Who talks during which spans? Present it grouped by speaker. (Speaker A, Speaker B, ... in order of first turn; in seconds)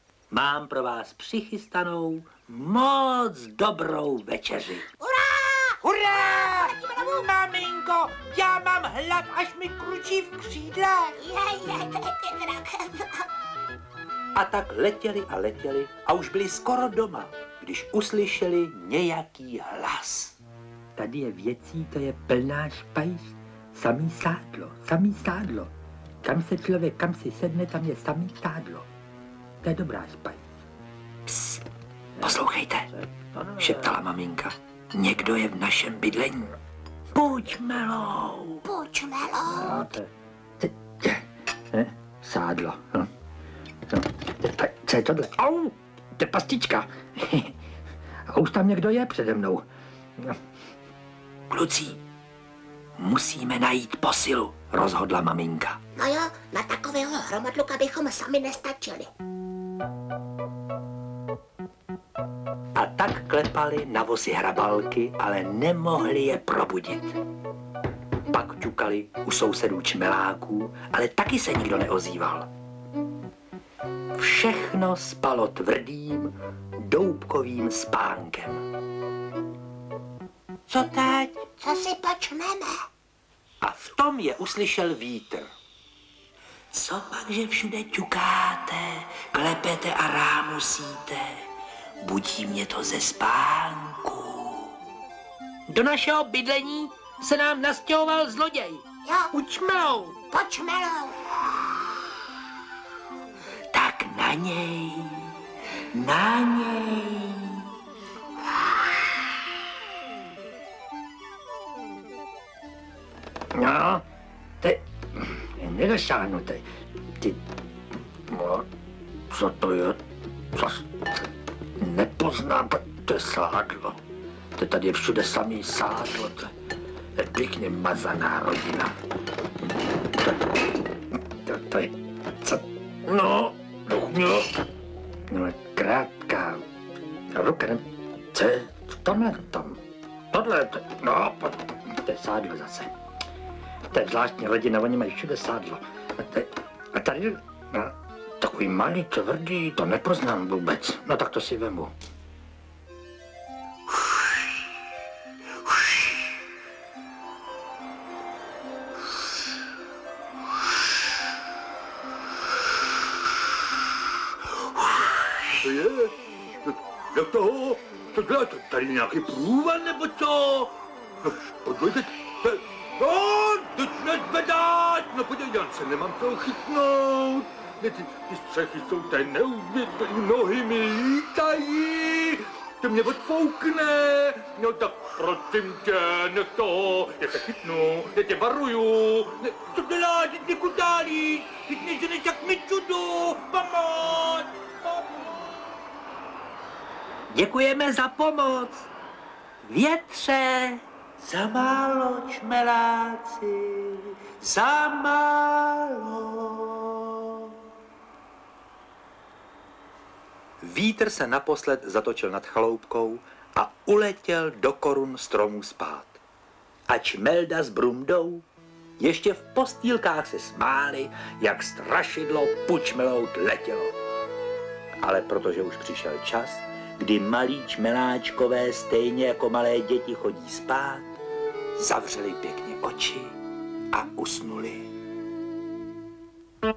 Speaker A: 0.3-4.8, 5.8-11.2, 14.3-20.4, 20.9-28.9, 29.6-30.4, 31.3-31.6, 32.2-36.5, 37.1-38.6, 39.5-43.1, 43.9-47.5, 48.3-49.6, 51.5-52.0, 53.0-55.8, 62.8-67.2, 68.3-72.5, 74.1-78.7, 80.7-81.5, 83.6-85.5, 86.7-91.5, 92.0-94.8, 95.7-100.2, 103.7-105.3, 105.9-107.7, 113.5-114.0, 114.6-116.6, 118.3-118.7, 119.3-120.0, 120.5-120.9, 121.8-124.0, 124.6-126.5, 127.2-128.9, 129.9-130.6, 131.4-134.6, 135.3-136.6, 137.3-142.9, 143.9-151.9, 191.4-194.7, 197.3-198.9, 199.6-207.6, 210.6-216.2, 216.9-218.4, 219.0-223.9, 225.0-231.1, 231.8-233.4, 233.9-234.9
Speaker B: 5.0-7.2, 11.2-13.2, 38.6-39.8, 56.0-59.1, 81.6-82.8, 99.1-99.3, 100.3-101.2
Speaker C: 165.5-166.1, 167.1-170.7, 171.3-191.6